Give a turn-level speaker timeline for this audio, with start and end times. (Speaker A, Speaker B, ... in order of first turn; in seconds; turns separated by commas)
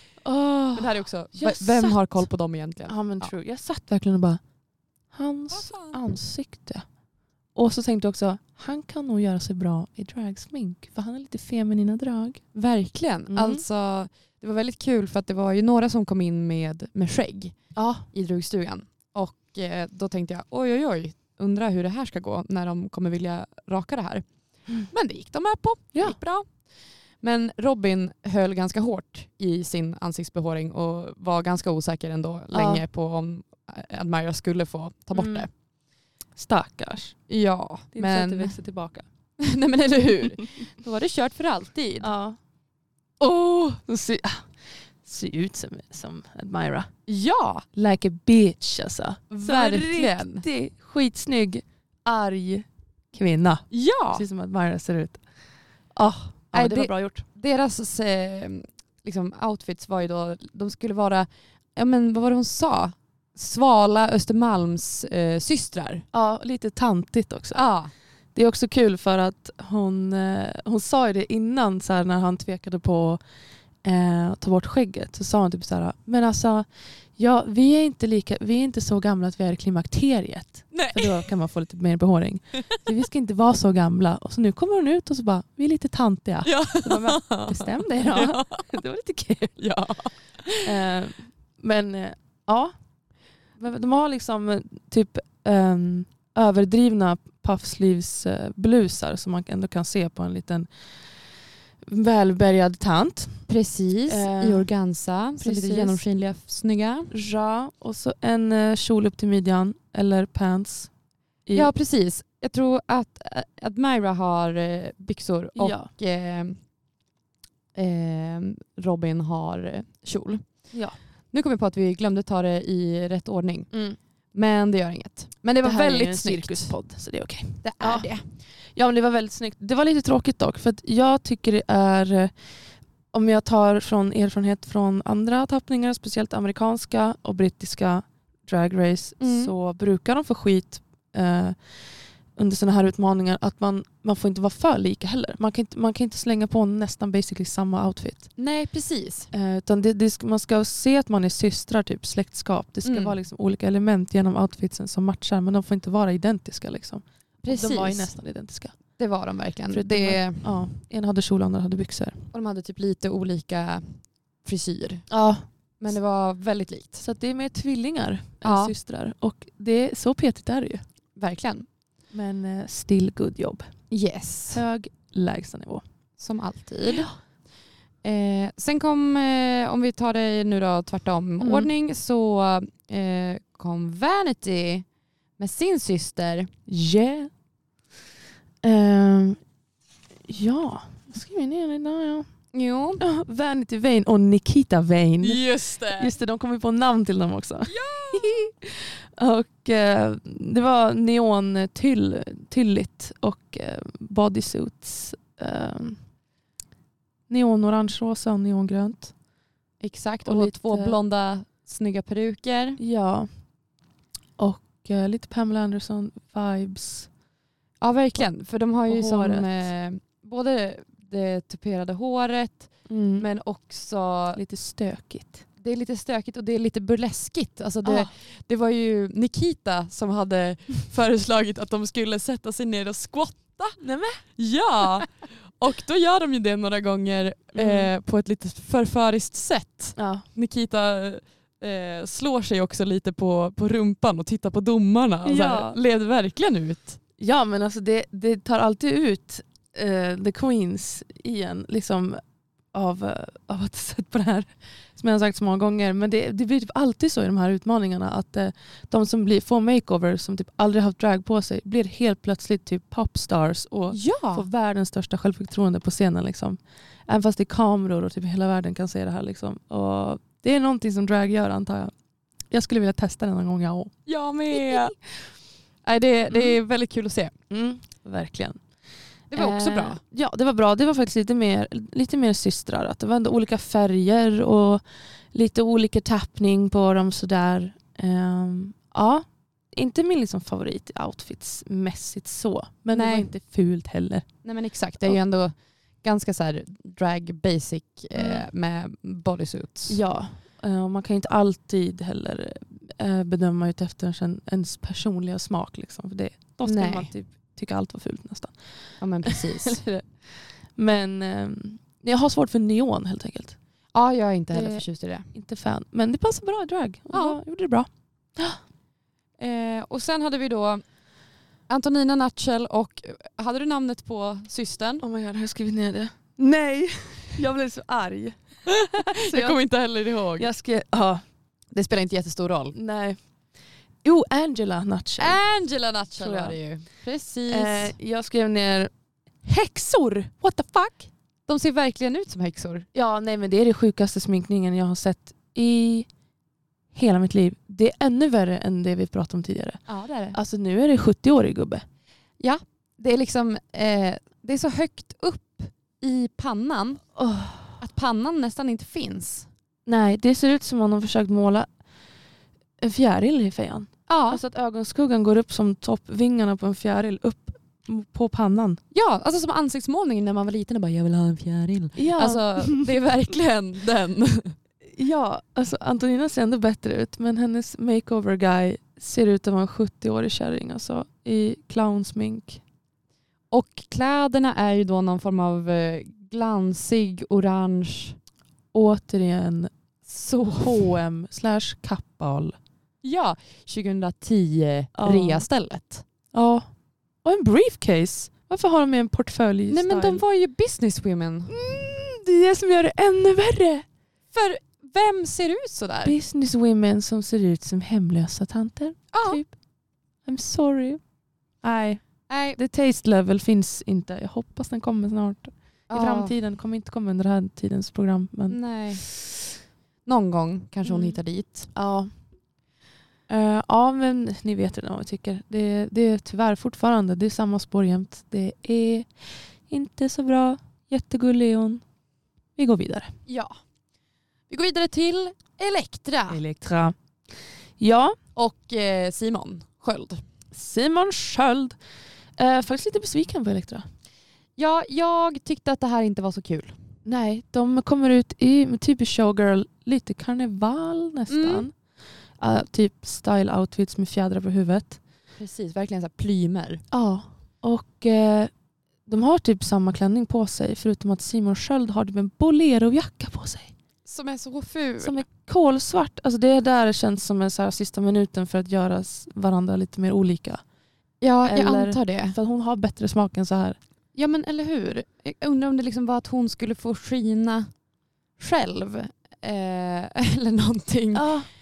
Speaker A: 0.2-2.3, Speaker B: 0.8-3.3, Speaker A: 2.9-4.4, Speaker A: 5.1-6.8, Speaker B: 5.5-6.0, Speaker A: 7.6-12.4, Speaker B: 12.5-17.6, Speaker A: 13.3-13.6, Speaker A: 17.8-18.1, Speaker B: 18.1-24.3, Speaker B: 24.9-26.6, Speaker B: 27.2-35.5, Speaker A: 32.5-32.8, Speaker A: 35.1-35.5, Speaker A: 36.4-37.2, Speaker B: 37.3-38.5, Speaker A: 37.9-39.1, Speaker B: 39.4-42.1, Speaker A: 42.0-42.4, Speaker A: 43.2-44.5, Speaker A: 45.0-46.9, Speaker B: 47.1-47.6, Speaker A: 47.7-55.2, Speaker B: 49.3-50.5, Speaker B: 53.7-54.2, Speaker A: 56.0-57.2, Speaker B: 56.5-66.0, Speaker A: 66.1-67.6, Speaker B: 67.5-67.9, Speaker A: 68.3-73.2, Speaker A: 73.8-76.7, Speaker A: 77.2-89.6, Speaker B: 80.7-81.2, Speaker B: 86.4-88.7, Speaker B: 89.6-90.7, Speaker A: 90.6-92.7, Speaker A: 93.6-100.7, Speaker A: 101.9-103.5, Speaker B: 103.5-107.1, Speaker A: 104.1-104.7, Speaker A: 105.4-106.0, Speaker A: 107.1-110.9, Speaker A: 111.5-111.7, Speaker B: 111.5-116.6, Speaker A: 115.6-115.9, Speaker B: 117.7-120.5, Speaker B: 121.3-123.7, Speaker A: 123.7-124.0, Speaker B: 124.3-126.7, Speaker A: 125.6-128.1, Speaker B: 127.6-128.2, Speaker A: 128.8-132.3, Speaker A: 133.1-141.6, Speaker B: 139.2-139.5, Speaker A: 142.3-148.3, Speaker B: 148.4-149.3, Speaker A: 149.3-158.8, Speaker B: 152.8-153.2, Speaker B: 157.4-158.1, Speaker B: 159.0-160.5, Speaker A: 159.7-162.2, Speaker B: 162.3-165.1, Speaker A: 165.1-165.4, Speaker B: 165.8-167.0, Speaker A: 167.0-170.8, Speaker B: 168.4-168.7, Speaker B: 171.2-171.7, Speaker A: 172.1-173.7, Speaker B: 173.9-174.6, Speaker A: 174.5-175.8, Speaker B: 176.2-177.1, Speaker A: 176.9-177.2, Speaker B: 178.0-184.8, Speaker A: 181.4-181.7, Speaker B: 185.4-186.5, Speaker A: 186.7-187.3, Speaker A: 188.6-189.4, Speaker A: 190.3-192.3, Speaker B: 192.5-193.0, Speaker A: 193.0-206.0, Speaker B: 195.2-196.1, Speaker B: 197.7-198.4, Speaker A: 207.3-209.1, Speaker B: 209.8-212.8, Speaker A: 210.2-211.0, Speaker A: 212.8-213.3, Speaker A: 214.4-217.1, Speaker B: 217.8-224.4, Speaker A: 218.9-219.5, Speaker A: 222.9-223.3, Speaker A: 224.3-225.4, Speaker B: 225.6-233.8, Speaker A: 227.8-228.1, Speaker A: 233.8-234.2, Speaker B: 234.4-247.0, Speaker A: 237.6-237.9, Speaker A: 240.0-240.3, Speaker A: 245.2-245.8, Speaker A: 247.2-252.2, Speaker A: 252.7-271.9, Speaker B: 263.9-264.5, Speaker A: 272.5-273.9, Speaker B: 274.1-274.9, Speaker A: 274.5-274.9, Speaker B: 275.8-277.3, Speaker A: 276.3-276.6, Speaker A: 277.5-278.6, Speaker B: 279.3-280.0, Speaker A: 279.3-294.3, Speaker B: 292.9-293.3, Speaker B: 294.4-300.0, Speaker A: 298.1-298.5, Speaker A: 299.9-308.6, Speaker B: 306.6-307.1, Speaker B: 309.0-309.8, Speaker A: 309.2-313.6, Speaker B: 313.9-315.3, Speaker A: 314.5-318.6, Speaker B: 317.1-317.4, Speaker B: 319.4-320.8, Speaker B: 321.7-325.0, Speaker A: 325.0-329.6, Speaker B: 328.7-330.5, Speaker A: 330.4-331.2, Speaker B: 331.7-332.8, Speaker A: 332.7-333.2, Speaker A: 334.0-335.4, Speaker B: 335.2-337.9, Speaker A: 336.2-336.6, Speaker A: 337.5-338.9, Speaker A: 339.4-341.1, Speaker B: 341.5-342.9, Speaker A: 342.9-346.1, Speaker A: 346.9-349.8, Speaker B: 349.9-350.4, Speaker A: 350.3-351.8, Speaker B: 352.4-357.0, Speaker A: 357.2-357.8, Speaker B: 357.8-359.5, Speaker A: 359.9-361.7, Speaker A: 362.8-368.8, Speaker B: 364.1-364.4, Speaker B: 368.9-374.6, Speaker A: 372.0-372.9, Speaker A: 375.0-382.6, Speaker B: 383.5-388.2, Speaker A: 388.7-389.7, Speaker B: 390.1-390.9, Speaker A: 390.5-392.6, Speaker B: 393.0-396.1, Speaker A: 395.0-395.5, Speaker A: 396.3-396.7, Speaker A: 397.2-400.2, Speaker B: 399.7-401.5, Speaker A: 401.5-403.9, Speaker B: 404.3-406.1, Speaker A: 406.0-409.5, Speaker B: 409.1-409.4, Speaker A: 410.3-411.0, Speaker A: 411.6-412.0, Speaker B: 412.3-412.6, Speaker A: 412.6-418.6, Speaker B: 415.9-416.4, Speaker B: 418.5-419.1, Speaker B: 420.1-421.7, Speaker A: 420.9-421.2, Speaker A: 421.7-422.1, Speaker A: 423.3-431.8, Speaker A: 432.6-433.1, Speaker B: 433.3-433.6, Speaker B: 434.5-436.4, Speaker A: 436.3-436.9, Speaker A: 437.8-438.2, Speaker B: 438.4-440.2, Speaker A: 440.5-441.8, Speaker A: 442.4-443.8, Speaker B: 444.6-446.8, Speaker A: 447.1-451.7, Speaker B: 451.3-451.7, Speaker A: 452.4-455.0, Speaker B: 455.4-456.8, Speaker A: 456.9-458.5, Speaker A: 459.1-463.7, Speaker B: 464.1-465.2, Speaker A: 465.0-470.6, Speaker B: 471.2-472.4, Speaker A: 471.4-473.8, Speaker B: 474.1-477.7, Speaker B: 478.4-481.3, Speaker A: 481.1-481.5